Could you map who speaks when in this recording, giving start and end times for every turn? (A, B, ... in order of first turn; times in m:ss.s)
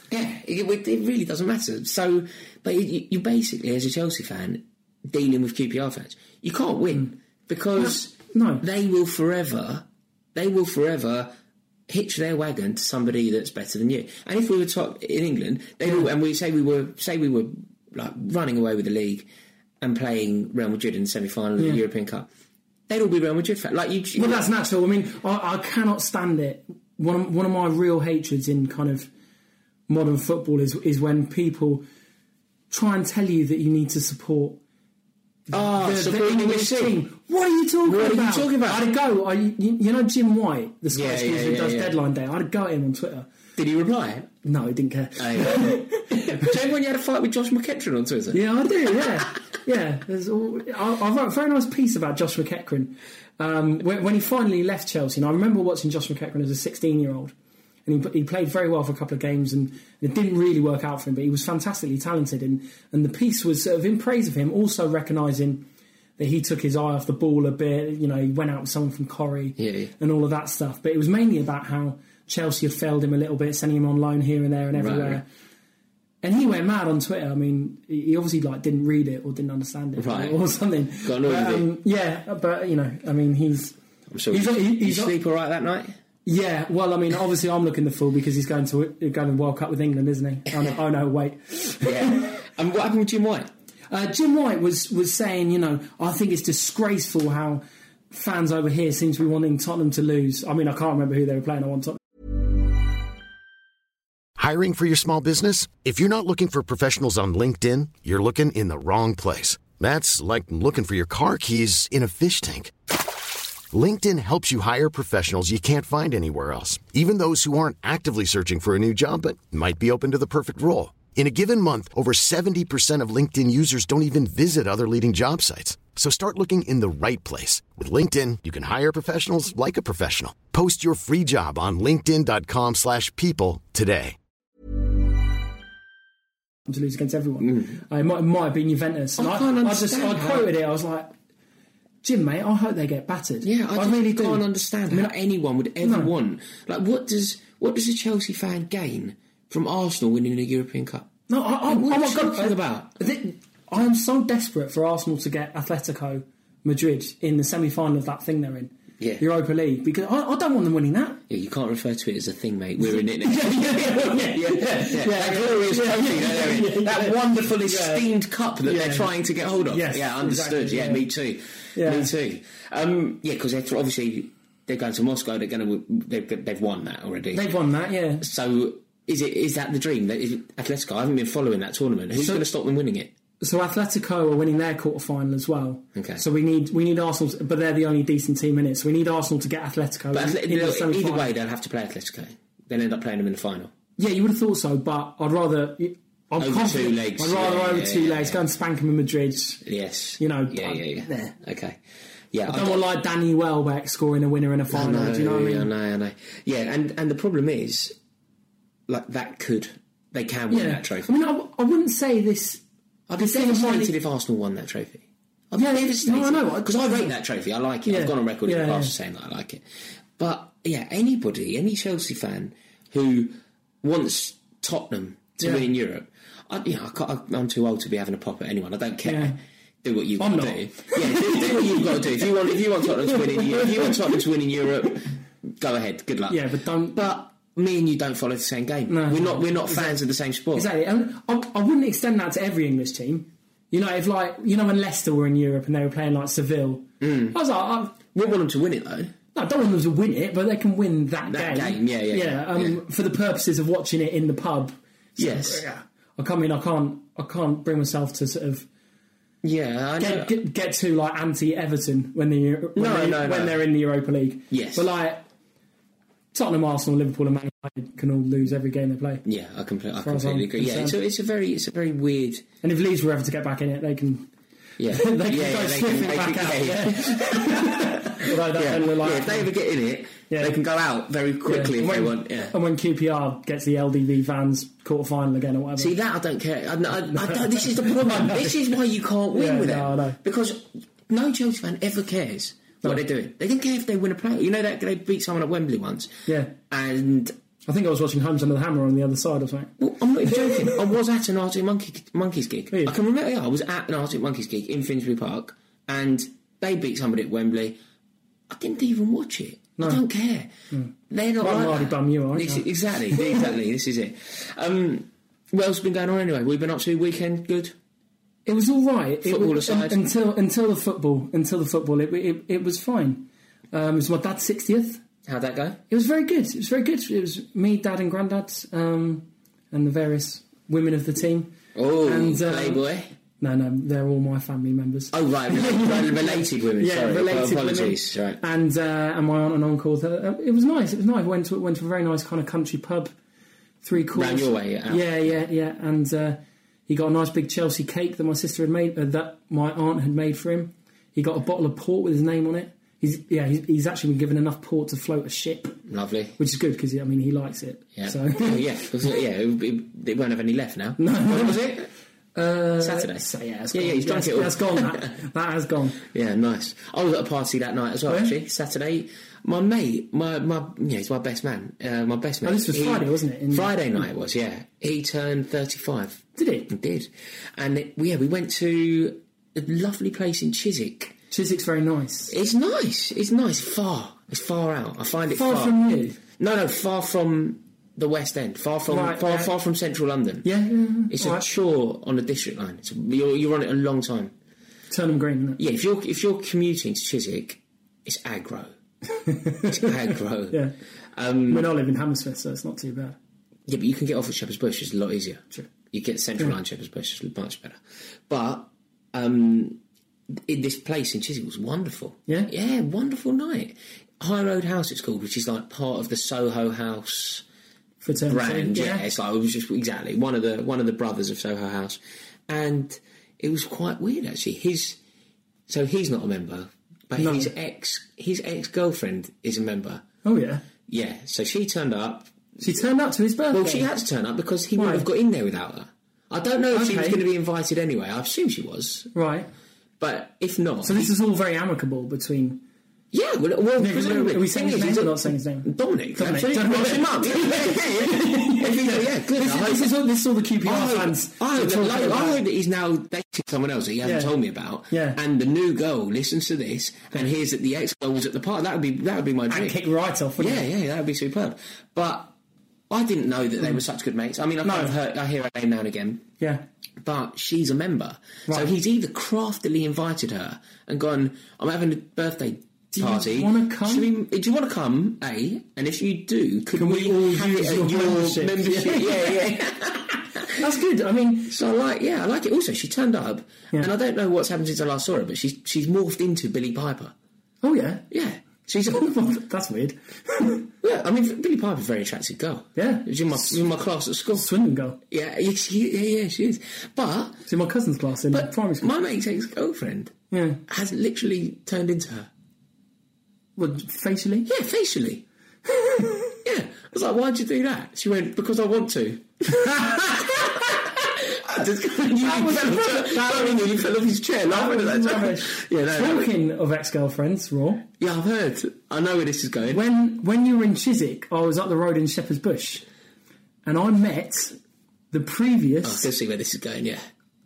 0:00.1-0:11.3 A
0:07.8-0:08.6 B
0:11.9-0:19.3 A
0:19.8-0:22.3 A
0:22.9-0:24.5 A
0:24.2-0:29.1 B
0:29.9-0:31.8 B
0:32.7-0:34.6 B
0:35.5-0:43.3 B
0:35.5-0:37.0 A
0:37.8-0:38.8 A
0:40.9-0:42.0 A
0:43.6-0:44.3 A
0:44.4-0:46.5 B
0:45.2-0:48.4 A
0:48.3-0:57.3 B
0:57.9-1:05.7 B
1:06.2-1:15.2 B
1:09.6-1:09.9 A
1:14.8-1:15.2 A
1:16.2-1:23.8 B
1:20.0-1:20.4 A
1:21.0-1:21.7 A
1:24.1-1:26.0 A
1:24.3-1:25.1 B
1:26.2-1:32.3 B
1:31.8-1:33.5 A
1:33.9-1:42.0 B
1:44.4-1:52.7 C
1:53.7-2:14.2 C
2:16.7-2:21.1 B
2:19.2-2:20.5 A
2:22.0-2:25.1 B
2:23.4-2:31.1 A
2:25.8-2:26.1 B
2:31.3-2:41.2 B
2:31.7-2:32.9 A
2:41.3-2:57.5 A
2:42.8-2:48.1 B
2:48.6-2:49.1 B
2:49.7-2:51.0 B
2:51.8-2:52.1 B
2:57.3-2:58.2 B
2:58.2-3:03.1 A
3:02.2-3:02.4 B
3:03.4-3:11.3 B
3:06.0-3:06.2 A
3:10.1-3:13.7 A
3:14.0-3:19.6 B
3:16.4-3:18.4 A
3:19.6-3:21.8 A
3:20.2-3:21.4 B
3:22.3-3:22.8 A
3:22.5-3:25.7 B
3:24.7-3:28.0 A
3:28.9-3:31.1 A
3:30.5-3:32.6 B
3:33.1-3:39.6 A
3:33.2-3:33.9 B
3:35.6-3:37.1 B
3:37.8-3:38.9 B
3:40.2-3:56.4 A
3:45.4-3:45.6 B
3:49.0-3:49.4 B
3:50.2-3:52.0 B
3:52.9-3:54.0 B
3:56.3-3:57.0 B
3:56.9-4:00.7 A
3:58.9-4:00.0 B
4:00.5-4:08.0 B
4:07.0-4:07.4 A
4:08.0-4:09.1 A
4:09.4-4:18.7 B
4:11.3-4:12.8 A
4:15.2-4:15.7 A
4:19.4-4:20.3 A
4:20.0-4:25.2 B
4:22.8-4:23.6 A
4:24.5-4:24.9 A
4:26.3-4:29.2 B
4:29.2-4:32.4 A
4:30.0-4:31.0 B
4:32.6-4:34.3 B
4:34.8-4:42.6 A
4:34.9-4:39.5 B
4:40.3-4:40.6 B
4:41.5-4:45.9 B
4:45.8-4:57.4 A
4:47.1-4:48.6 B
4:49.3-4:50.2 B
4:56.3-4:56.5 B
4:57.7-4:59.7 B
4:59.8-5:07.8 A
5:08.5-5:10.5 A
5:10.7-5:13.4 B
5:11.1-5:17.8 A
5:18.5-5:25.0 B
5:19.2-5:20.0 A
5:25.3-5:25.8 A
5:25.9-5:32.8 B
5:31.8-5:33.1 A
5:33.4-5:43.1 B
5:35.1-5:38.4 A
5:43.8-5:55.8 B
5:44.1-5:45.3 A
5:55.9-5:56.4 A
5:56.4-5:58.6 B
5:58.0-6:01.9 A
6:01.0-6:01.6 B
6:02.4-6:06.0 B
6:02.8-6:05.1 A
6:06.0-6:21.1 A
6:08.1-6:08.3 B
6:12.4-6:13.8 B
6:16.4-6:16.7 B
6:21.3-6:22.3 B
6:22.3-6:25.8 A
6:25.3-6:26.2 B
6:26.4-6:30.5 A
6:28.9-6:29.5 B
6:30.4-6:31.4 B
6:31.1-6:34.3 A
6:34.9-6:35.6 B
6:35.6-6:38.7 A
6:39.2-6:40.0 B
6:39.7-6:40.6 A
6:41.2-6:41.7 A
6:41.5-6:43.2 B
6:43.7-6:49.8 A
6:50.5-6:57.4 A
6:58.0-6:59.0 B
6:58.2-7:05.0 A
7:05.7-7:10.0 A
7:07.2-7:07.5 B
7:10.2-7:10.6 B
7:10.9-7:12.6 A
7:12.6-7:13.9 B
7:13.5-7:19.1 A
7:14.8-7:15.1 B
7:16.7-7:17.2 B
7:19.1-7:19.5 B
7:20.0-7:21.1 A
7:20.8-7:22.6 B
7:23.1-7:29.9 A
7:23.8-7:32.4 B
7:30.6-7:39.8 A
7:34.0-7:34.3 B
7:34.9-7:35.2 B
7:39.5-7:40.7 B
7:40.4-7:42.3 A
7:42.9-7:46.2 A
7:44.6-7:45.0 B
7:46.4-7:46.6 B
7:47.0-8:00.6 A
7:48.5-7:48.7 B
7:52.9-7:54.1 B
7:56.7-7:59.6 B
8:00.6-8:01.6 B
8:01.5-8:07.1 A
8:07.6-8:08.1 B
8:08.1-8:09.1 A
8:08.8-8:10.7 B
8:10.8-8:14.5 A
8:12.8-8:13.6 B
8:14.4-8:15.0 B
8:15.1-8:17.4 A
8:17.5-8:18.9 B
8:18.3-8:20.1 A
8:20.3-8:20.6 B
8:20.7-8:22.3 A
8:23.6-8:24.5 B
8:24.5-8:25.2 A
8:26.4-8:36.3 A
8:29.5-8:30.5 B
8:32.0-8:33.8 B
8:34.5-8:37.9 B
8:38.0-8:39.8 A
8:39.7-8:42.8 B
8:43.6-8:44.6 B
8:45.1-8:46.1 B
8:45.8-8:47.0 A